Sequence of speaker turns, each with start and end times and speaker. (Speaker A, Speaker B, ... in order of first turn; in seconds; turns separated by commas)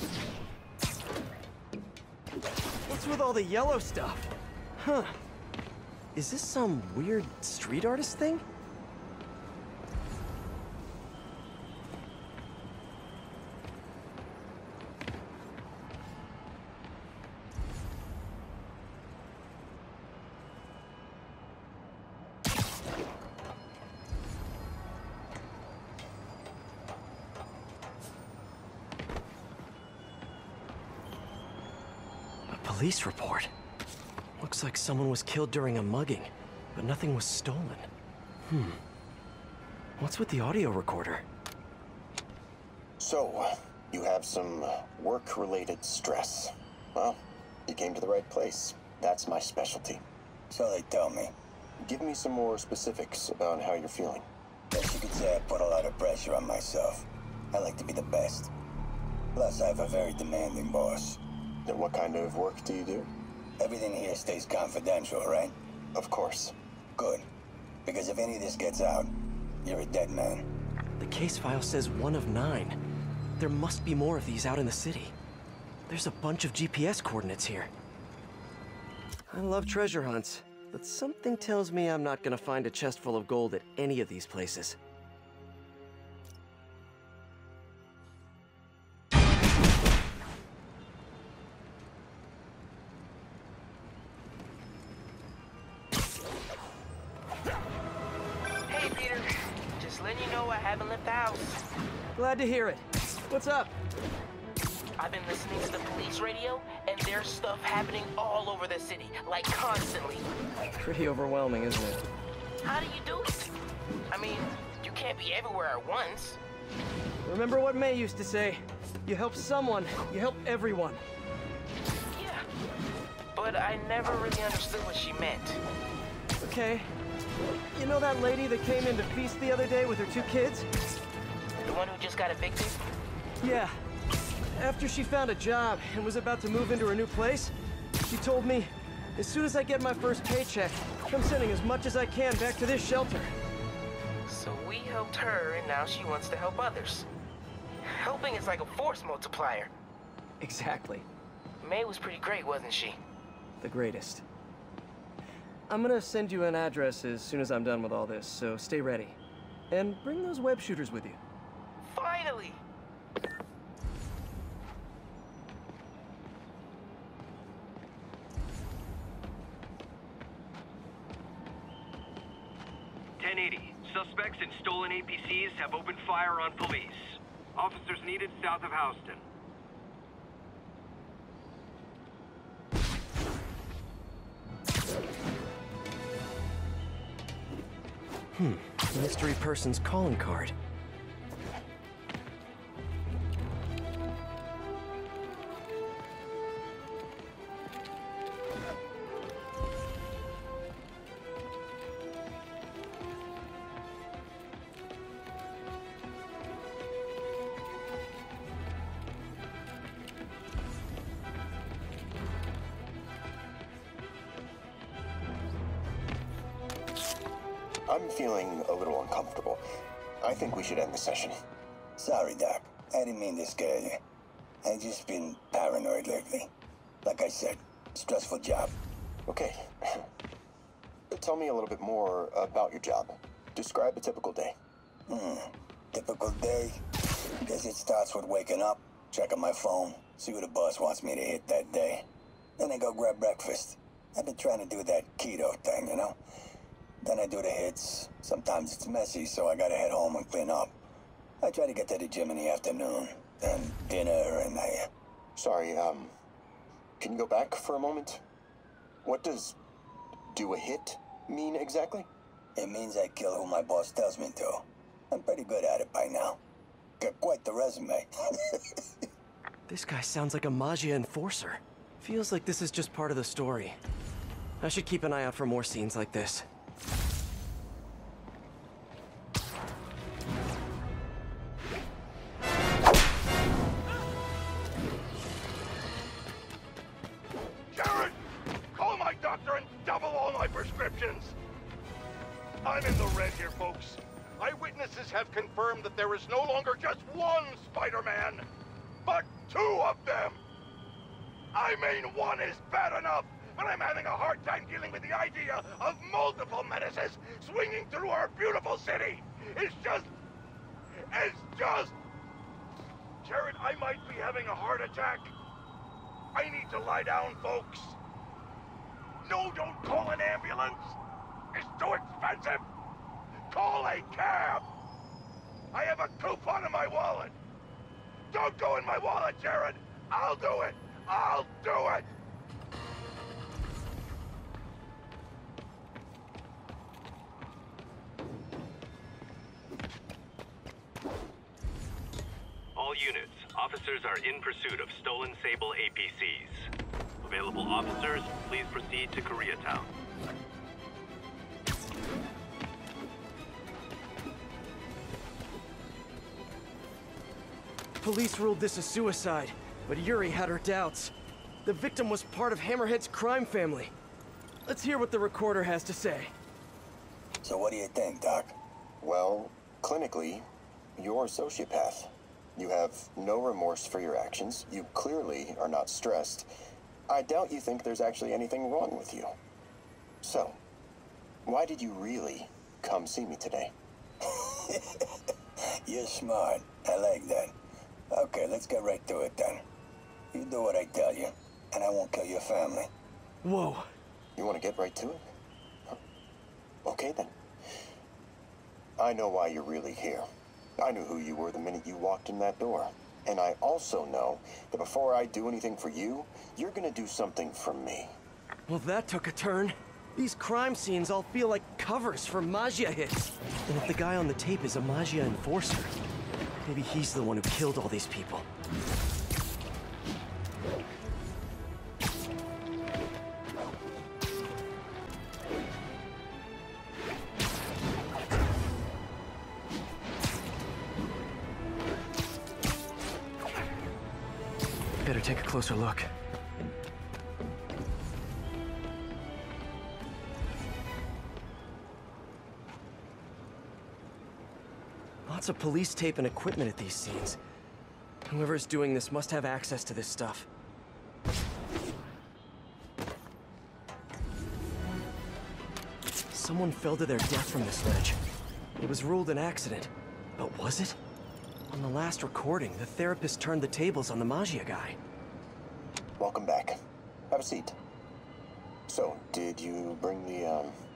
Speaker A: 2.9-5.2, Speaker A: 6.2-8.4, Speaker A: 32.5-33.5, Speaker A: 34.4-37.9, Speaker A: 38.5-38.8, Speaker A: 40.0-41.2, Speaker B: 43.0-50.0, Speaker C: 50.5-51.3, Speaker B: 51.8-54.3, Speaker C: 54.7-58.5, Speaker C: 59.3-61.2, Speaker B: 61.7-63.1, Speaker C: 63.6-65.5, Speaker B: 66.0-66.5, Speaker C: 67.0-67.3, Speaker C: 67.8-70.5, Speaker A: 71.0-72.8, Speaker A: 73.4-75.2, Speaker A: 75.9-77.7, Speaker A: 79.3-84.8, Speaker D: 98.7-101.6, Speaker A: 102.2-103.7, Speaker D: 105.0-110.3, Speaker A: 110.8-112.1, Speaker D: 112.6-113.5, Speaker D: 114.1-116.4, Speaker A: 117.2-121.0, Speaker D: 122.2-122.5, Speaker D: 123.3-125.6, Speaker A: 126.4-126.9, Speaker A: 127.8-130.7, Speaker D: 131.6-132.8, Speaker A: 133.4-133.7, Speaker A: 134.5-143.3, Speaker D: 144.3-147.1, Speaker D: 148.0-149.7, Speaker A: 150.4-151.1, Speaker D: 151.6-153.0, Speaker A: 153.6-154.2, Speaker A: 155.7-159.2, Speaker A: 159.7-161.2, Speaker D: 161.8-162.6, Speaker E: 173.2-179.2, Speaker A: 188.3-190.6, Speaker B: 217.9-219.6, Speaker B: 220.2-221.4, Speaker C: 222.0-224.0, Speaker C: 224.6-226.5, Speaker C: 227.0-228.7, Speaker B: 229.3-230.1, Speaker B: 231.1-234.6, Speaker C: 235.1-236.8, Speaker C: 237.4-242.1, Speaker C: 242.6-246.2, Speaker C: 247.0-250.8, Speaker C: 251.4-254.9, Speaker B: 255.4-256.1, Speaker B: 257.0-258.2, Speaker B: 259.0-259.6, Speaker B: 260.3-262.1, Speaker C: 262.6-266.4, Speaker C: 267.0-268.9, Speaker A: 269.7-273.8, Speaker A: 274.6-276.5, Speaker F: 287.7-291.4, Speaker F: 292.6-298.4, Speaker F: 299.1-300.4, Speaker F: 301.5-310.1, Speaker F: 311.1-312.0, Speaker F: 313.2-315.3, Speaker F: 316.3-318.0, Speaker F: 319.2-321.0, Speaker F: 321.5-322.7, Speaker F: 323.5-324.7, Speaker F: 325.7-327.3, Speaker F: 328.3-332.1, Speaker E: 342.8-346.7, Speaker E: 347.2-349.9, Speaker A: 358.0-361.1, Speaker A: 361.6-363.9, Speaker A: 364.7-366.3, Speaker C: 367.4-368.6, Speaker B: 369.0-370.4, Speaker B: 371.0-376.5, Speaker B: 377.1-379.4, Speaker B: 380.2-380.6, Speaker B: 381.4-383.7, Speaker C: 384.2-385.2, Speaker C: 385.7-387.6, Speaker C: 388.1-389.6, Speaker C: 390.3-392.9, Speaker A: 393.4-393.9, Speaker B: 394.4-395.2, Speaker B: 396.9-397.4, Speaker B: 399.0-408.2, Speaker A: 408.7-415.9, Speaker A: 416.6-418.5, Speaker A: 435.0-436.1, Speaker A: 445.3-447.4, Speaker A: 448.3-450.5, Speaker A: 456.3-458.2, Speaker A: 458.8-461.0, Speaker A: 461.7-465.0, Speaker B: 466.2-466.8, Speaker B: 467.3-467.8, Speaker B: 468.9-470.8